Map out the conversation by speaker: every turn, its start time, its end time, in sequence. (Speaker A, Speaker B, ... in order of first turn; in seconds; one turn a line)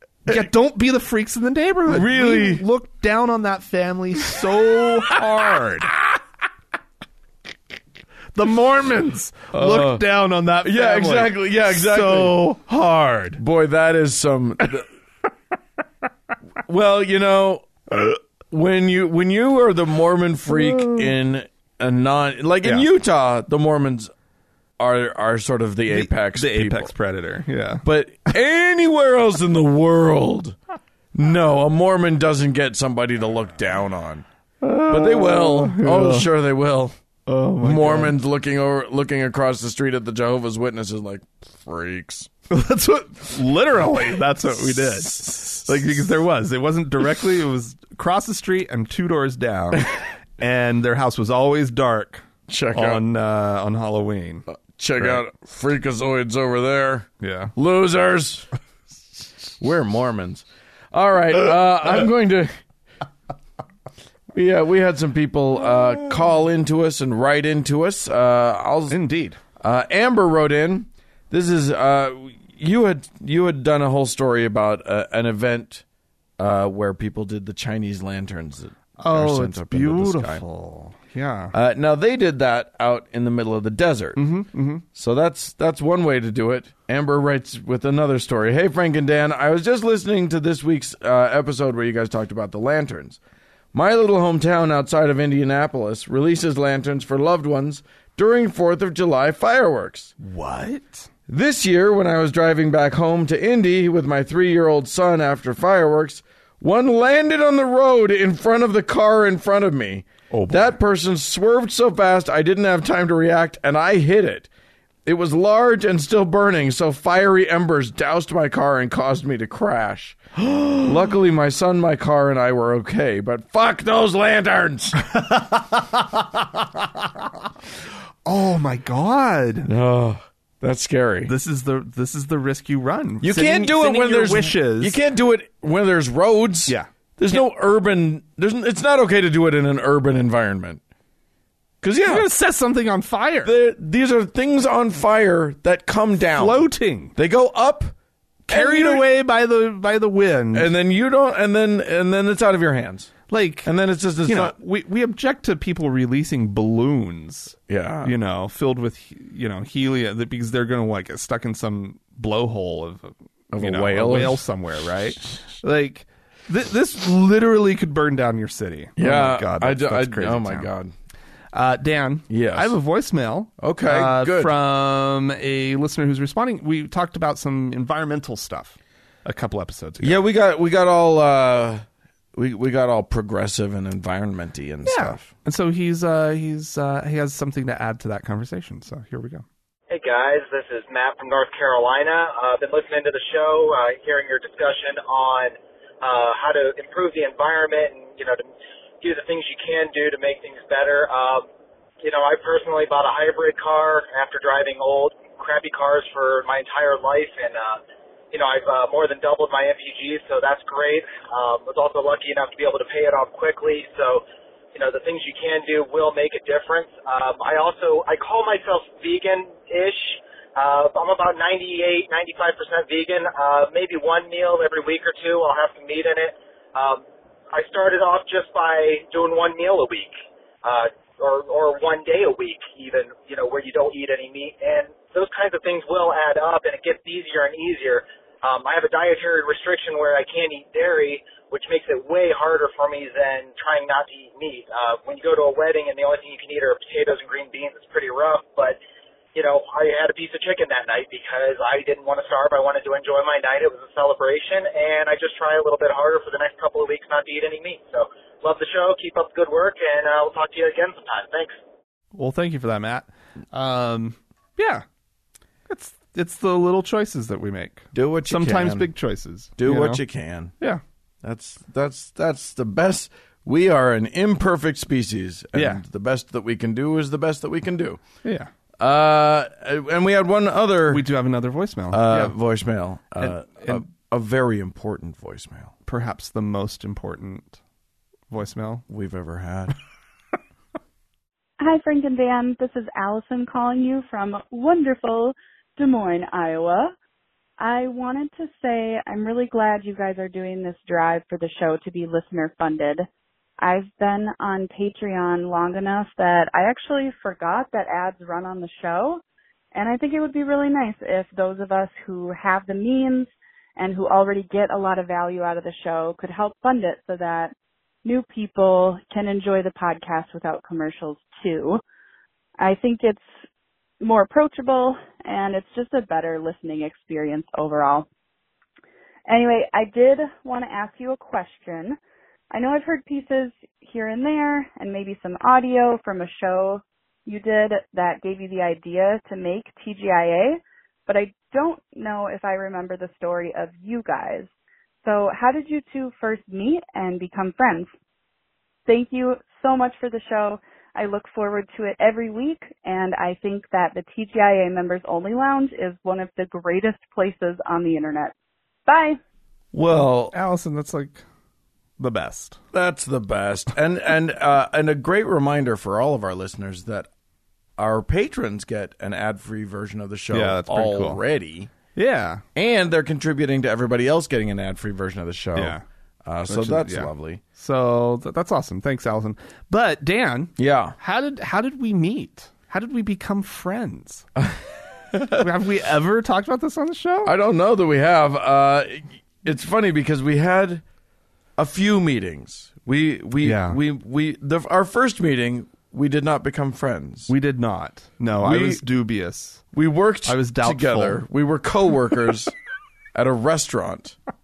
Speaker A: 0.2-5.9
Speaker B: 1.9-2.6
Speaker A: 8.3-13.4
Speaker B: 9.5-10.0
Speaker B: 10.6-12.4
Speaker B: 13.4-14.8
Speaker B: 16.6-24.1
Speaker A: 20.5-21.1
Speaker B: 24.8-26.9
Speaker A: 25.9-27.8
Speaker B: 27.8-30.6
Speaker B: 31.1-34.2
Speaker A: 34.6-36.3
Speaker B: 34.9-37.0
Speaker A: 37.2-38.1
Speaker B: 37.6-42.3
Speaker A: 42.5-54.5
Speaker B: 44.6-45.6
Speaker B: 52.5-53.0
Speaker B: 54.5-58.5
Speaker A: 57.2-57.5
Speaker B: 59.6-62.6
Speaker B: 64.3-69.0
Speaker A: 68.9-69.4
Speaker B: 69.6-75.8
Speaker B: 76.4-80.4
Speaker A: 79.0-81.5
Speaker B: 81.5-84.2
Speaker A: 84.2-84.8
Speaker B: 84.9-93.2
Speaker B: 93.7-100.1
Speaker A: 100.2-101.1
Speaker B: 101.3-114.5
Speaker A: 110.3-110.7
Speaker B: 115.0-125.0
Speaker A: 120.5-120.8
Speaker A: 125.1-127.2
Speaker A: 128.2-129.7
Speaker B: 129.6-131.3
Speaker A: 131.2-135.0
Speaker B: 133.2-140.8
Speaker A: 136.7-137.4
Speaker B: 141.8-142.3
Speaker A: 142.0-143.5
Speaker B: 143.4-146.6
Speaker A: 146.3-147.1
Speaker B: 147.2-147.9
Speaker B: 148.5-149.1
Speaker A: 148.5-150.7
Speaker B: 150.5-153.1
Speaker A: 153.3-153.7
Speaker B: 153.6-154.5
Speaker A: 154.2-170.7
Speaker B: 157.7-158.1
Speaker B: 163.5-164.4
Speaker B: 169.0-170.9
Speaker A: 171.5-180.2
Speaker B: 172.3-172.8
Speaker B: 173.6-174.5
Speaker B: 180.0-185.3
Speaker A: 184.8-189.4
Speaker C: 189.9-198.5
Speaker C: 199.0-201.5
Speaker C: 202.0-207.8
Speaker C: 208.3-248.8
Speaker C: 249.3-261.6
Speaker A: 262.1-264.8
Speaker A: 265.7-270.0
Speaker B: 267.9-268.9
Speaker B: 269.6-270.5
Speaker B: 271.2-278.0
Speaker A: 275.5-275.8
Speaker A: 278.2-278.5
Speaker B: 278.8-281.1
Speaker A: 280.9-282.3
Speaker B: 281.9-285.7
Speaker A: 283.2-283.8
Speaker A: 285.8-287.6
Speaker A: 288.3-288.8
Speaker B: 288.9-289.7
Speaker D: 291.6-296.9
Speaker D: 297.6-303.1
Speaker D: 303.6-309.2
Speaker D: 309.7-317.5
Speaker D: 318.0-321.8
Speaker D: 322.6-323.3
Speaker D: 324.0-328.1
Speaker D: 329.3-332.0
Speaker D: 332.5-344.5
Speaker D: 345.0-347.9
Speaker D: 348.9-358.3
Speaker D: 358.9-359.2
Speaker B: 359.7-360.3
Speaker A: 360.3-361.2
Speaker A: 362.0-362.6
Speaker B: 362.7-367.1
Speaker B: 367.8-371.7
Speaker A: 370.3-371.2
Speaker A: 371.9-372.4
Speaker B: 372.5-377.4
Speaker A: 375.6-375.8
Speaker A: 376.5-384.3
Speaker B: 380.6-380.9
Speaker B: 385.1-385.4
Speaker A: 385.3-387.3
Speaker B: 387.2-390.8
Speaker B: 391.6-397.3
Speaker A: 393.4-393.8
Speaker A: 397.3-399.6
Speaker B: 398.4-398.8
Speaker B: 399.7-402.5
Speaker A: 400.2-401.2
Speaker B: 403.1-404.2